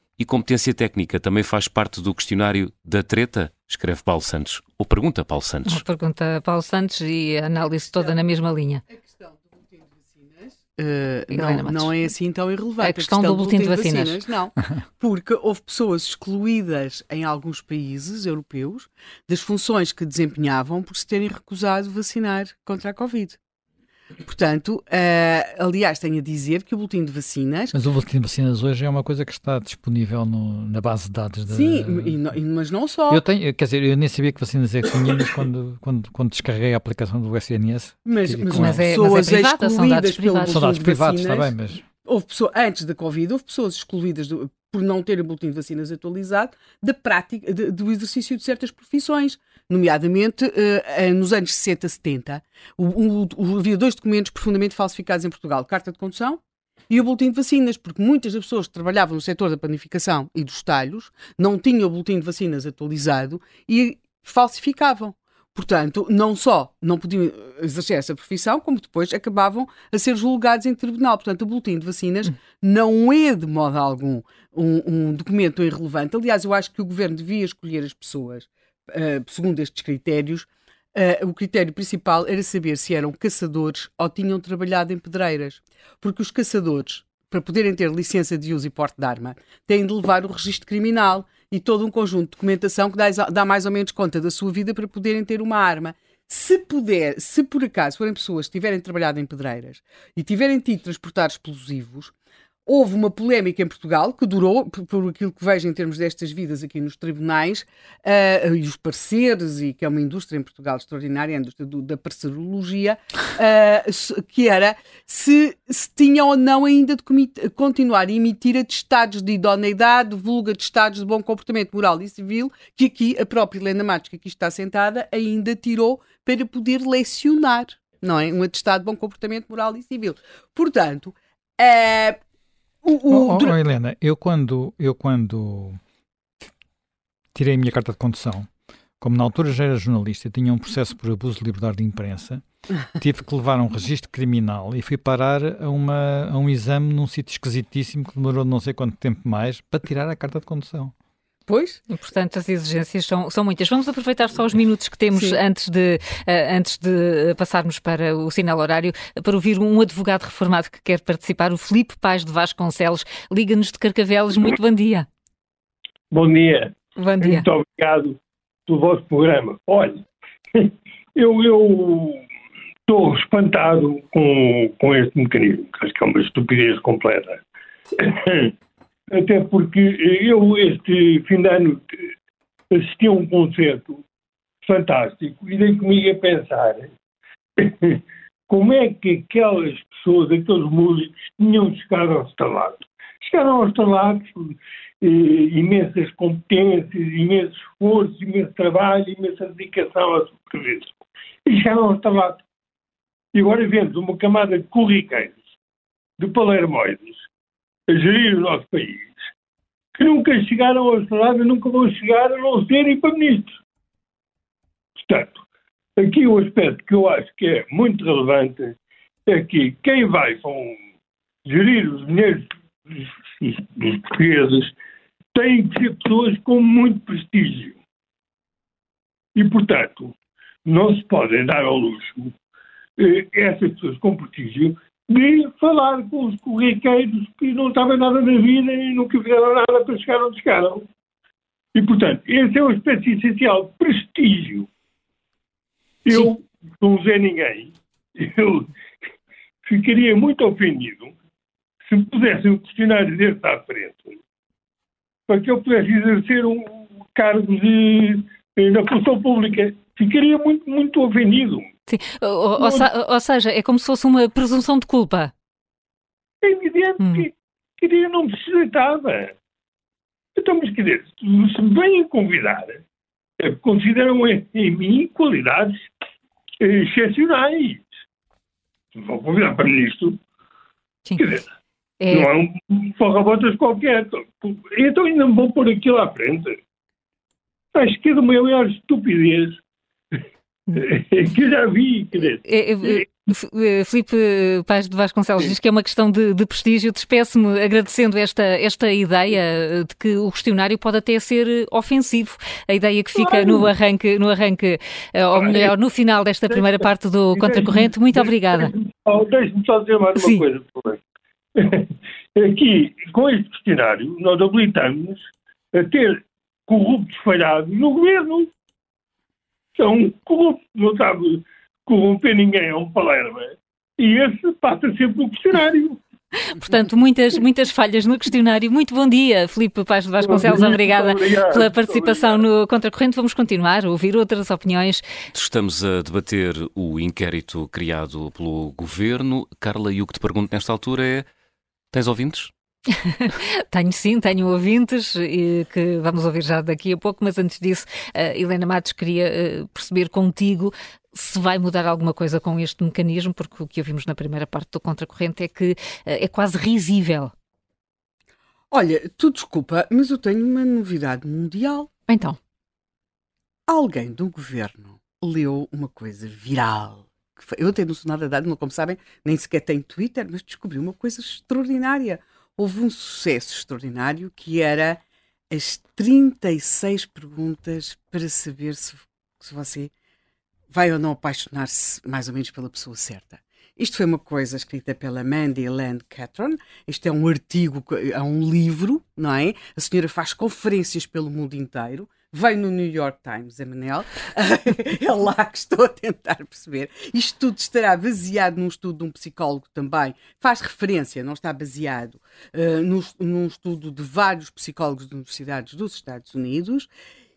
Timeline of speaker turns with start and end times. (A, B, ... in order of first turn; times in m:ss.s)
0:00.2-0:05.8 A
0:05.6-0:08.8 B
0:08.9-0:23.4 C
0:11.3-0:12.1 B
0:12.8-0:14.2 B
0:24.2-0:27.7 C
0:27.7-0:32.2 D
0:31.5-0:33.2 C
0:33.1-0:38.9 D
0:38.0-1:42.1 C
0:38.5-0:40.7 B
0:40.5-0:41.8 D
1:42.7-2:12.2 C
2:12.8-2:13.6 C
2:13.1-2:15.8 D
2:17.4-2:18.5 D
2:19.0-2:22.4 D
2:23.0-2:30.9 D
2:31.5-2:31.8 C
2:31.9-2:45.1 B
2:46.1-2:52.2 E
2:47.0-2:47.5 B
2:52.9-2:57.4 E
2:58.0-2:58.5 E
2:59.1-3:01.9 E
3:02.7-3:04.0 E
3:04.6-3:06.9 E
3:07.6-3:21.0 E
3:21.5-3:22.4 E
3:23.3-3:25.4 E
3:26.2-3:27.2 E
3:27.9-3:29.2 E
3:30.0-3:33.5 E
3:35.0-3:35.4 E
3:36.0-3:40.8 E
3:41.4-3:44.8 E
3:45.3-3:47.8 E
3:49.4-3:50.1 E
3:50.6-3:52.3 E
3:53.0-4:00.9 E
4:01.7-4:04.7 E
4:06.0-4:08.7 E
4:09.6-4:11.1 E
4:11.9-4:14.2 E
4:15.3-4:21.7 E
4:21.9-4:25.3 B
4:22.6-4:22.9 E
4:26.4-4:29.3 E
4:27.0-4:27.3 B
4:30.4-4:32.8 E
4:33.4-4:35.8 E
4:36.6-4:37.9 E
4:39.0-4:40.2 E
4:41.2-4:41.4 E
4:42.0-4:42.3 B
4:42.1-4:46.6 E
4:47.7-4:49.6 E
4:50.7-4:53.0 E
4:52.4-5:08.7 B
5:03.2-5:03.7 E
5:05.4-5:05.8 E
5:06.5-5:11.0 E
5:10.2-5:10.4 B
5:11.6-5:18.5 E
5:19.8-5:26.0 E
5:26.5-5:35.1 B
5:30.2-5:32.4 E
5:35.3-5:41.3 A
5:41.9-5:42.5 A
5:42.9-5:57.3 B
5:58.7-6:01.9 C
6:02.1-6:02.4 B
6:03.7-6:19.9 C
6:20.7-6:46.9 C